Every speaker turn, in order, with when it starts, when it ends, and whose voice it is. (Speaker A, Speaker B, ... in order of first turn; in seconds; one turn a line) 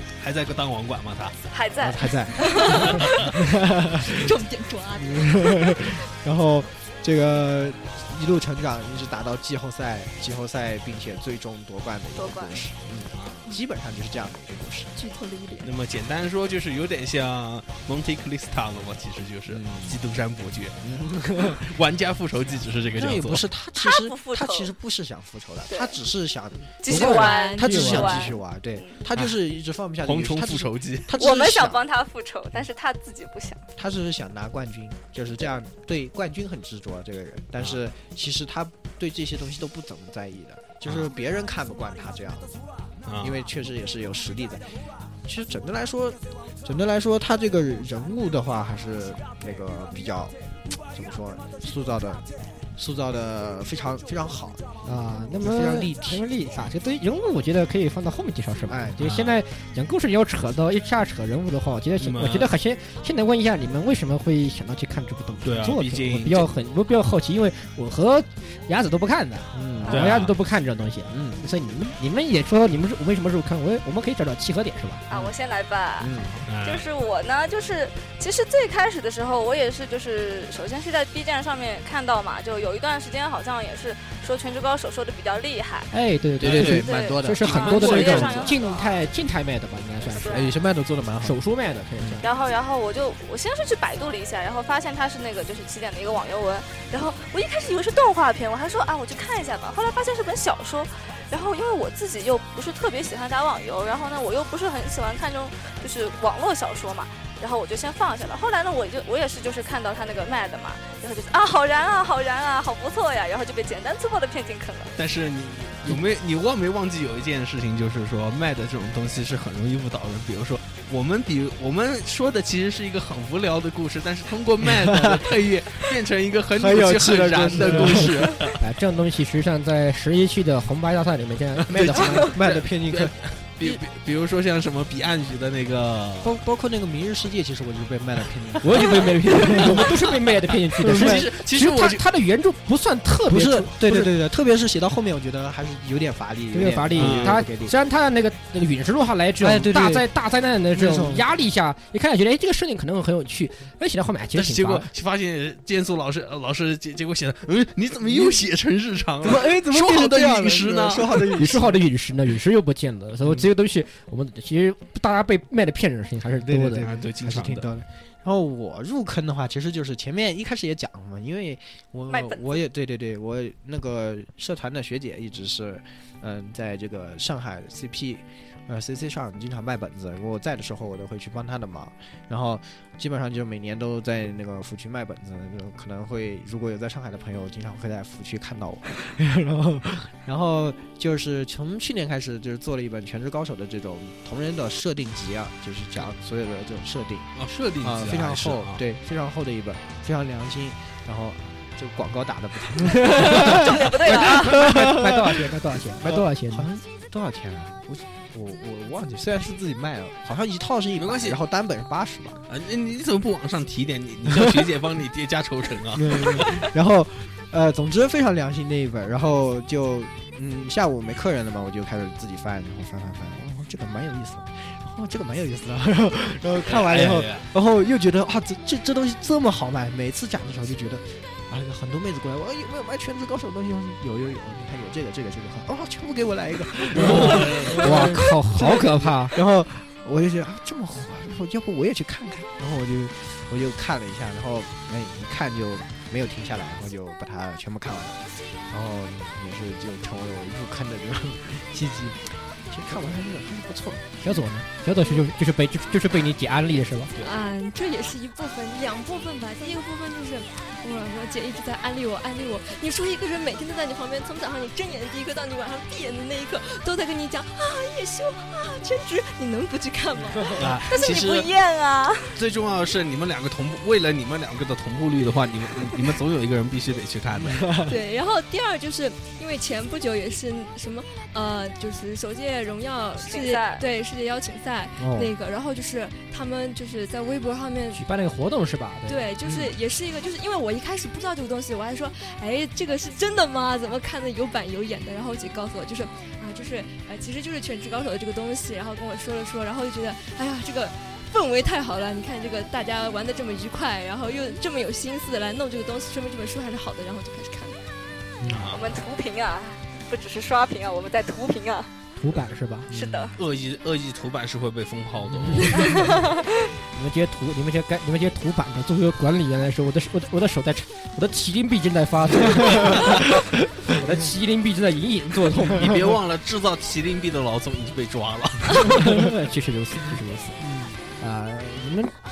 Speaker A: 0.2-1.4
Speaker B: 1.5-3.3
Speaker C: 1.8-4.3
Speaker D: 2.5-2.8
Speaker D: 4.0-5.9
Speaker C: 4.9-14.9
Speaker B: 12.2-12.6
Speaker A: 13.1-13.5
Speaker D: 14.9-15.7
Speaker A: 15.6-20.8
Speaker C: 19.5-20.0
Speaker C: 20.8-21.7
Speaker A: 21.4-23.4
Speaker C: 22.9-31.9
Speaker B: 23.8-24.7
Speaker B: 25.7-25.9
Speaker B: 26.8-29.0
Speaker E: 26.9-28.2
Speaker D: 27.1-28.3
Speaker A: 30.0-31.2
Speaker B: 31.2-33.6
Speaker C: 33.8-42.5
Speaker A: 43.0-43.4
Speaker C: 43.2-44.7
Speaker C: 45.2-52.2
Speaker C: 52.8-54.6
Speaker E: 54.8-75.0
Speaker C: 55.4-56.2
Speaker C: 58.7-59.0
Speaker A: 59.0-59.4
Speaker A: 62.0-62.5
Speaker A: 65.4-66.5
Speaker C: 69.5-70.1
Speaker A: 69.9-70.3
Speaker C: 71.1-71.4
Speaker C: 75.1-75.3
Speaker B: 75.1-76.1
Speaker C: 76.0-76.5
Speaker A: 76.5-76.8
Speaker B: 76.6-85.9
Speaker E: 85.9-90.5
Speaker C: 86.4-88.5
Speaker A: 86.4-86.8
Speaker B: 86.7-89.0
Speaker A: 87.5-88.5
Speaker B: 90.1-90.5
Speaker C: 90.2-91.4
Speaker E: 91.2-92.2
Speaker B: 92.2-114.9
Speaker A: 115.0-128.5
Speaker C: 124.6-125.2
Speaker C: 126.5-128.4
Speaker E: 128.6-132.3
Speaker C: 131.7-133.2
Speaker A: 131.7-136.4
Speaker C: 136.2-139.9
Speaker E: 138.6-144.1
Speaker A: 139.6-139.9
Speaker A: 140.7-142.0
Speaker C: 140.8-141.3
Speaker C: 143.3-147.7
Speaker E: 146.5-154.9
Speaker A: 146.9-147.4
Speaker C: 149.4-150.1
Speaker C: 150.7-151.3
Speaker A: 154.3-161.4
Speaker C: 158.0-158.4
Speaker C: 159.2-161.8
Speaker E: 161.4-166.9
Speaker C: 166.3-212.4
Speaker A: 166.8-167.7
Speaker B: 172.1-172.6
Speaker A: 197.3-198.8
Speaker B: 203.0-204.6
Speaker E: 203.1-206.7
Speaker A: 210.9-211.4
Speaker A: 212.5-216.6
Speaker C: 214.3-214.7
Speaker C: 215.9-254.1
Speaker A: 226.6-227.5
Speaker A: 236.9-238.1
Speaker E: 237.1-239.3
Speaker E: 254.2-257.1
Speaker D: 257.2-271.4
Speaker C: 270.5-270.8
Speaker A: 270.6-271.5
Speaker B: 270.9-272.1
Speaker A: 272.4-277.7
Speaker C: 277.3-278.0
Speaker D: 277.8-288.0
Speaker B: 283.2-283.9
Speaker C: 285.0-285.3
Speaker E: 287.9-289.3
Speaker D: 289.1-307.8
Speaker C: 289.4-289.7
Speaker C: 308.4-308.7
Speaker A: 308.5-308.8
Speaker B: 308.7-311.9
Speaker E: 312.2-312.9
Speaker C: 312.9-313.3
Speaker B: 312.9-313.4
Speaker A: 313.4-315.8
Speaker E: 315.5-316.0
Speaker B: 316.0-316.5
Speaker E: 316.9-326.0
Speaker C: 322.6-323.0
Speaker A: 325.7-329.0
Speaker E: 328.7-330.6
Speaker C: 330.6-331.0
Speaker E: 331.2-332.1